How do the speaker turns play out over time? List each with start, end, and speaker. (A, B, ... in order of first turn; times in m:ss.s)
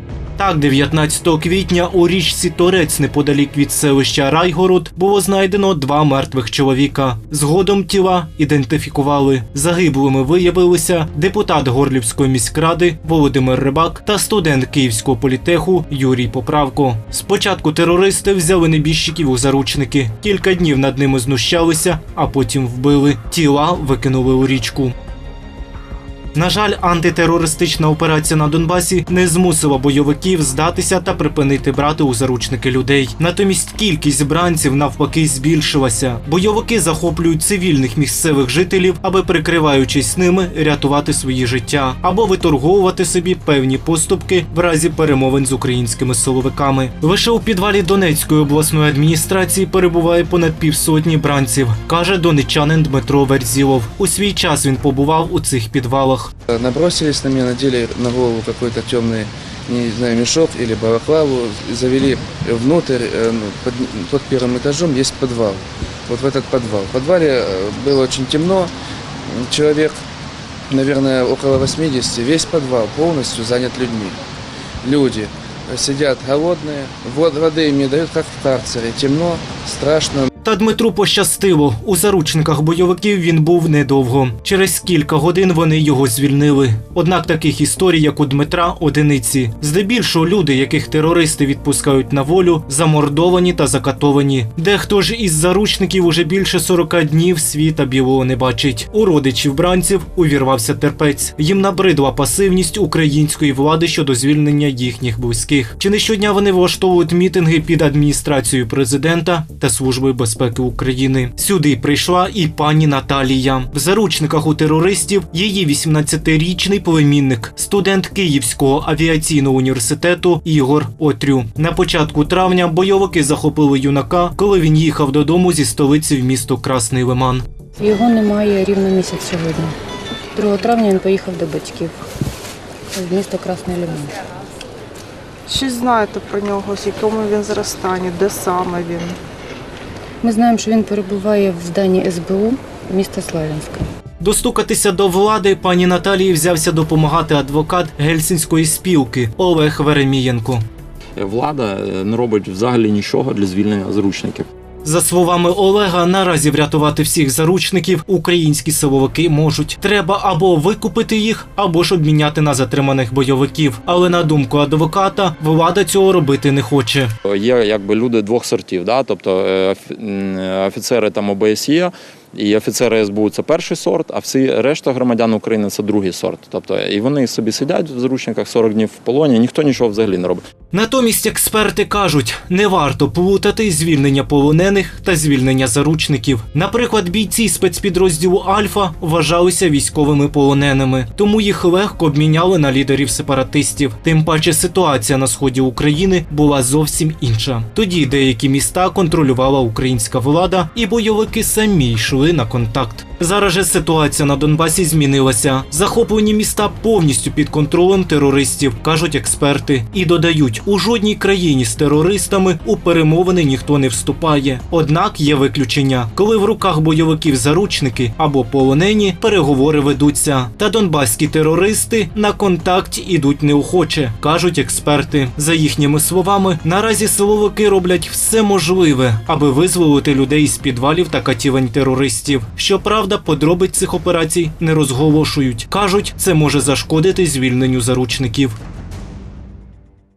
0:00.4-0:24.9 A
0:26.3-0:56.3 A
0:56.5-1:08.7 B
1:09.3-1:10.0 B
1:10.7-1:14.2 B
1:14.8-1:20.3 B
1:20.4-2:07.4 A
2:07.8-2:09.8 C
2:10.3-2:12.0 C
2:12.9-2:14.2 C
2:15.5-2:19.2 D
2:20.2-2:23.9 C
2:24.2-2:30.6 A
2:31.2-2:34.5 E
2:34.8-2:47.1 A
2:47.3-3:00.4 E
3:00.7-3:58.5 A